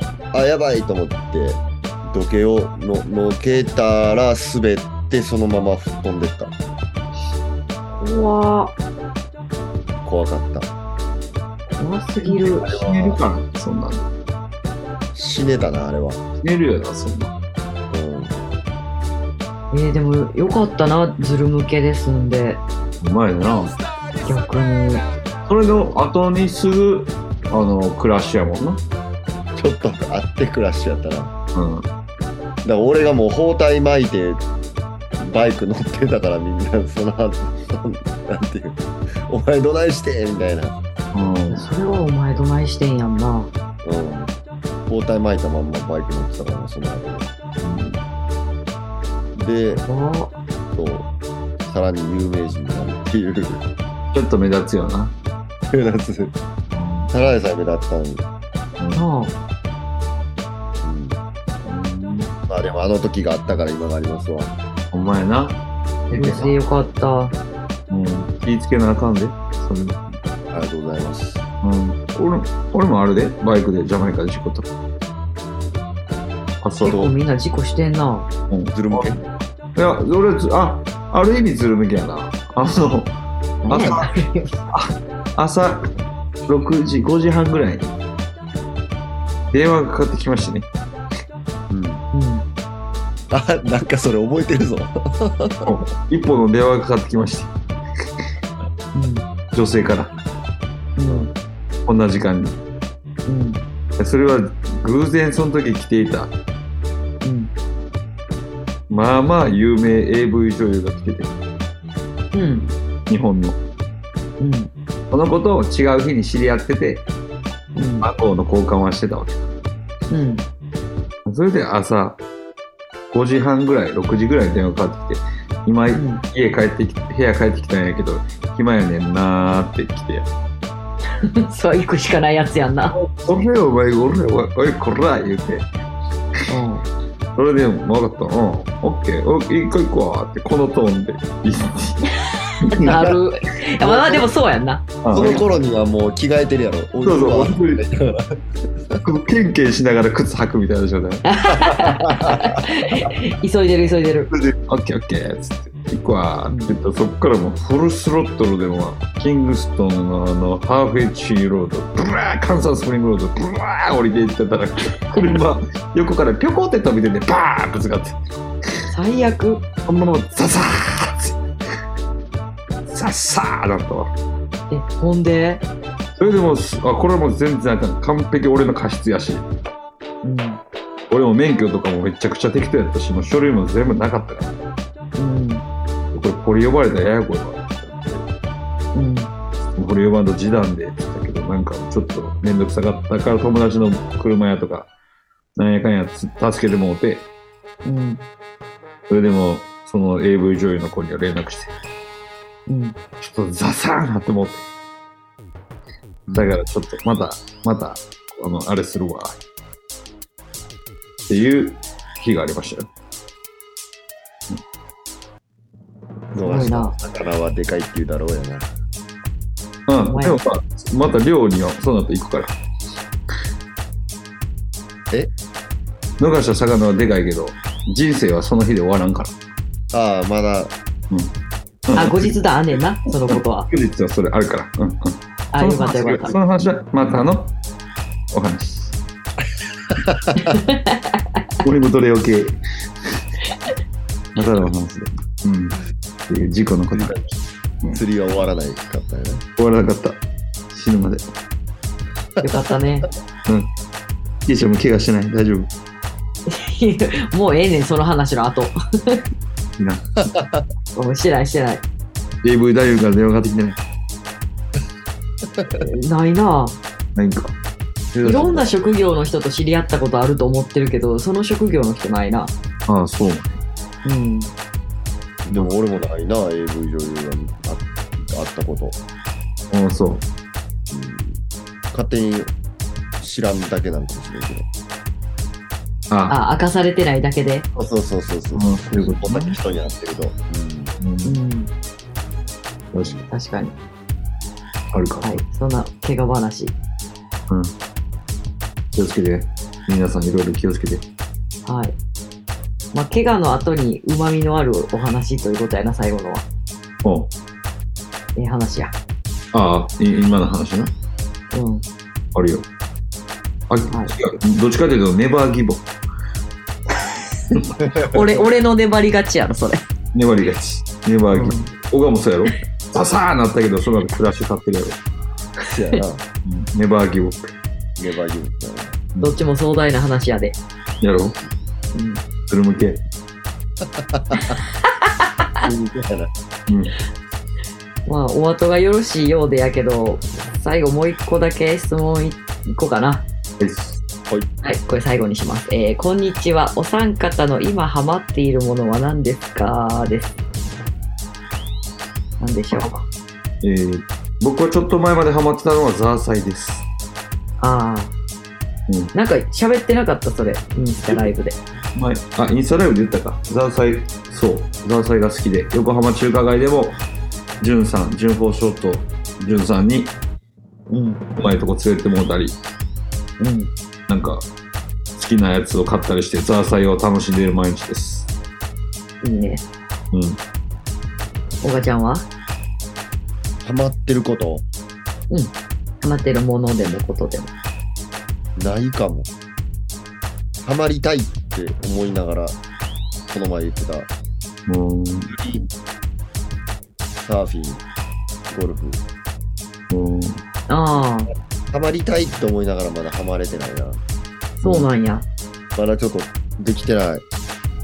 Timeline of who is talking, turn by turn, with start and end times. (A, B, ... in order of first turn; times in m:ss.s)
0:00.3-0:06.5 A
0:08.0-0:08.7 B
0:10.0-0:10.7 A
0:11.8-0:12.7 B
0:12.2-0:14.1 C
0:12.6-0:13.2 A
0:15.1-0:16.2 A
0:16.4-0:17.3 C
0:17.9-0:18.3 A
0:19.7-0:22.6 B
0:23.0-0:23.8 C
0:24.2-0:25.0 B
0:25.5-0:28.8 C
0:29.5-0:31.3 A
0:31.5-0:31.8 C
0:32.6-0:34.4 A
0:35.2-0:40.8 A
0:41.1-0:41.7 C
0:41.5-0:43.5 B
0:43.8-0:44.3 A
0:44.9-0:47.3 A
0:47.6-0:48.0 C
0:49.4-0:49.8 A
0:49.9-0:50.4 B
0:50.7-0:51.1 A
0:51.6-0:53.6 A
0:54.1-0:55.1 C
0:55.7-0:56.3 A
0:56.7-0:57.1 C
0:57.1-0:58.2 A
0:58.8-0:59.0 C
0:58.9-0:59.4 B
1:00.8-1:01.2 A
1:01.6-1:02.3 C
1:02.5-1:04.5 A
1:04.9-1:06.6 C
1:06.1-1:07.3 B
1:07.9-1:10.1 C
1:10.5-1:11.4 A
1:11.6-1:14.7 C
1:16.6-1:17.1 C
1:16.8-1:18.3 B
1:18.5-1:19.2 C
1:18.7-1:19.2 A
1:19.7-1:23.2 C
1:23.6-1:24.6 B
1:23.7-1:24.1 C
1:24.7-1:25.9 C
1:26.4-1:27.9 C
1:29.5-1:30.7 C
1:31.7-1:32.0 A
1:32.1-1:32.4 B
1:33.3-1:35.7 A
1:35.6-1:37.5 C
1:38.9-1:39.2 B
1:39.5-1:40.1 C
1:41.0-1:41.3 B
1:41.0-1:41.3 A
1:41.8-1:42.6 C
1:43.3-1:43.6 B
1:44.0-1:46.3 C
1:47.2-1:47.5 B
1:48.9-1:51.3 C
1:52.3-1:52.7 B
1:53.1-1:53.6 C
1:54.4-1:54.7 B
1:55.1-1:57.1 C
1:57.7-1:58.1 B
1:58.0-1:59.5 C
2:00.1-2:00.4 B
2:01.2-2:02.2 C
2:03.1-2:10.3 C
2:05.9-2:06.2 B
2:11.2-2:13.0 B
2:12.9-2:15.7 C
2:16.5-2:16.8 B
2:17.3-2:23.0 C
2:22.6-2:24.9 B
2:23.8-2:24.2 A
2:25.0-2:25.5 C
2:25.1-2:28.3 A
2:27.0-2:27.8 C
2:29.0-2:31.2 C
2:31.2-2:34.3 B
2:31.7-2:32.4 A
2:34.3-2:48.2 C
2:48.9-2:49.6 B
2:49.8-2:51.4 C
2:52.9-2:54.1 C
2:54.7-2:55.6 B
2:56.2-2:59.4 C
3:00.2-3:00.6 B
3:01.1-3:04.5 C
3:05.2-3:05.6 B
3:06.1-3:08.3 C
3:08.9-3:09.3 B
3:09.7-3:14.9 C
3:15.6-3:17.3 C
3:17.8-3:18.2 B
3:19.1-3:21.7 C
3:22.7-3:23.0 B
3:23.2-3:24.6 C
3:26.3-3:26.6 A
3:26.3-3:29.4 C
3:31.3-3:32.9 C
3:36.3-3:38.7 A
3:36.4-3:36.9 B
3:39.9-3:42.6 C
3:40.0-3:40.4 B
3:46.2-3:49.3 C
3:49.9-3:50.7 A
3:51.9-3:52.3 C
3:51.9-3:53.7 B
3:53.3-3:57.5 C
3:55.5-3:56.3 B
3:58.3-3:59.0 C
4:00.0-4:00.5 A
4:00.4-4:01.0 B
4:01.6-4:02.6 C
4:04.3-4:07.3 C
4:06.9-4:07.2 A
4:07.9-4:09.4 A
4:09.6-4:10.2 C
4:10.7-4:11.2 C
4:12.4-4:13.1 B
4:14.4-4:15.7 C
4:16.5-4:19.2 B
4:19.8-4:20.2 C
4:20.3-4:20.6 A
4:20.9-4:21.8 B
4:22.4-4:23.8 C
4:25.6-4:25.8 A
4:25.7-4:26.8 B
4:27.1-4:27.6 C
4:28.1-4:28.7 C
4:28.2-4:32.5 B
4:32.9-4:33.6 C
4:34.0-4:34.5 B
4:35.4-4:39.0 A
4:39.7-4:40.2 C
4:40.9-4:41.4 A
4:41.9-4:42.5 A
4:43.2-4:44.7 A
4:46.1-4:46.4 C
4:46.3-4:47.7 B
4:47.7-4:50.9 A
4:48.5-4:49.6 C
4:51.0-4:51.4 C
4:51.2-4:51.7 B
4:52.9-4:53.2 C
4:53.3-4:53.8 B
4:54.9-4:55.4 C
4:55.2-4:56.7 B
4:58.9-5:01.0 C
5:01.6-5:01.9 B
5:02.9-5:06.4 B
5:07.0-5:07.3 C
5:08.4-5:08.9 B
5:09.5-5:10.9 C
5:11.5-5:11.8 B
5:12.3-5:12.6 C
5:13.7-5:15.8 C
5:18.0-5:19.8 B
5:20.1-5:25.0 C
5:21.3-5:21.7 B
5:25.7-5:26.2 A
5:26.4-5:27.5 C
5:28.0-5:29.0 A
5:29.2-5:30.6 B
5:31.0-5:31.4 C
5:31.9-5:32.2 B
5:32.5-5:33.0 C
5:33.8-5:34.6 A
5:35.6-5:36.3 A
5:36.7-5:36.9 C
5:38.0-5:43.2 B
5:43.6-5:44.0 C
5:44.6-5:50.3 B
5:52.4-5:53.0 B
5:53.6-5:56.8 C
5:57.6-5:58.1 B
5:58.9-5:59.1 C
5:59.1-6:01.6 B
6:01.1-6:01.3 C
6:01.9-6:07.0 C
6:07.6-6:10.1 C
6:10.9-6:11.2 B
6:11.4-6:12.6 C
6:13.4-6:13.7 B
6:14.1-6:14.4 C
6:15.2-6:18.3 C
6:19.2-6:19.6 B
6:20.1-6:20.4 C
6:21.6-6:22.2 B
6:23.6-6:24.6 A
6:25.3-6:27.5 B
6:28.6-6:29.3 A
6:30.6-6:32.6 A
6:33.3-6:34.1 A
6:34.7-6:35.3 C
6:35.3-6:35.7 A
6:37.2-6:37.8 A
6:38.5-6:39.0 A
6:39.9-6:40.4 C
6:40.7-6:41.3 B
6:41.7-6:44.0 A
6:44.6-6:45.3 B
6:45.7-6:47.2 A